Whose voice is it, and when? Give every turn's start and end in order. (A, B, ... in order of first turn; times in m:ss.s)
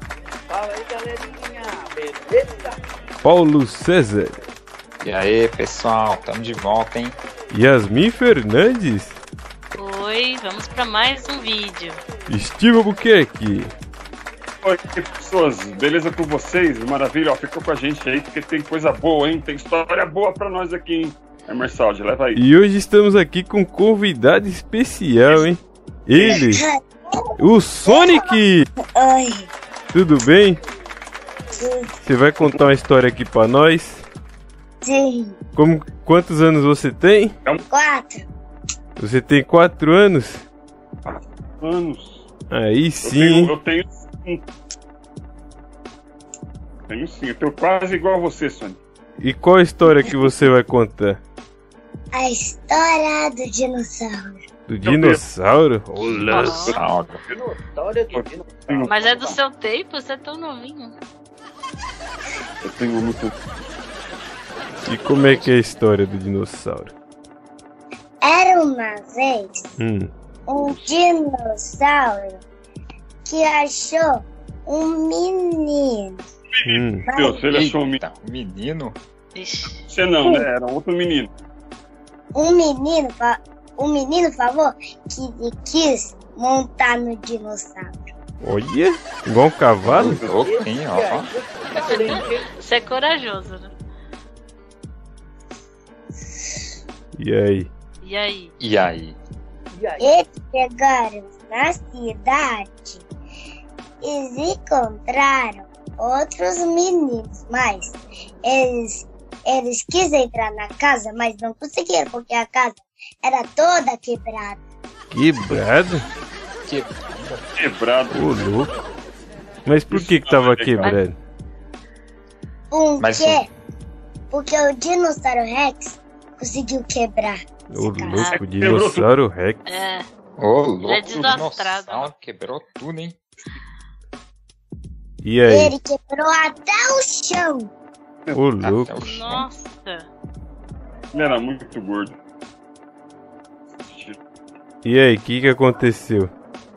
0:00.5-0:02.8 A
0:03.2-0:04.4 B
0:05.0-0:07.2 C
0:07.5-0:09.2 B
0:09.7-0:12.0 D
0:12.3-0:13.7 B
0:14.6-0:22.4 E
0:22.3-0:26.6 B
0:26.2-0:28.4 F
0:27.4-0:28.6 B
0:28.9-0:29.5 F
0:29.9-0:30.6 B
0:31.6-0:32.0 F
0:32.0-0:34.0 B
0:34.8-0:35.4 F
0:35.6-0:37.3 B
0:37.7-0:38.2 F
0:39.0-0:40.4 B
0:41.0-0:42.3 E
0:42.5-0:43.5 B
0:43.0-0:44.4 E
0:46.9-0:48.8 E
0:49.2-0:51.2 B
0:52.1-0:54.4 F
0:54.7-0:56.7 B
0:54.8-0:55.2 E
0:56.2-0:56.8 D
0:56.3-0:56.8 E
0:56.7-0:57.2 C
0:57.3-0:59.4 A
0:58.1-0:59.0 E
0:58.8-1:00.9 D
1:02.6-1:03.3 E
1:04.8-1:06.9 B
1:08.2-1:09.8 F
1:09.8-1:10.1 B
1:10.5-1:12.4 F
1:10.6-1:10.9 E
1:13.3-1:16.2 F
1:16.5-1:18.0 E
1:16.6-1:17.0 B
1:17.1-1:17.4 F
1:17.5-1:19.0 C
1:19.3-1:19.8 D
1:19.8-1:21.3 E
1:22.3-1:28.0 F
1:28.4-1:30.2 B
1:29.8-1:31.3 C
1:30.1-1:30.4 E
1:30.3-1:32.5 A
1:31.8-1:33.7 D
1:37.1-1:37.7 B
1:38.0-1:38.5 D
1:38.6-1:39.2 C
1:39.7-1:40.2 A
1:40.0-1:43.0 F
1:44.0-1:54.6 F
1:55.1-1:56.0 B
1:56.6-1:57.4 C
1:57.6-1:58.2 E
1:58.1-1:58.7 B
1:59.6-2:01.2 B
1:59.9-2:01.0 E
2:02.7-2:03.5 F
2:03.0-2:03.4 C
2:04.3-2:08.3 F
2:07.7-2:09.6 B
2:08.3-2:09.1 E
2:09.6-2:10.0 D
2:10.4-2:13.2 C
2:10.8-2:12.1 D
2:15.2-2:15.7 B
2:15.5-2:17.7 F
2:18.3-2:19.4 B
2:18.6-2:19.3 C
2:19.0-2:20.1 D
2:21.1-2:22.2 E
2:23.8-2:24.2 E
2:24.8-2:26.3 B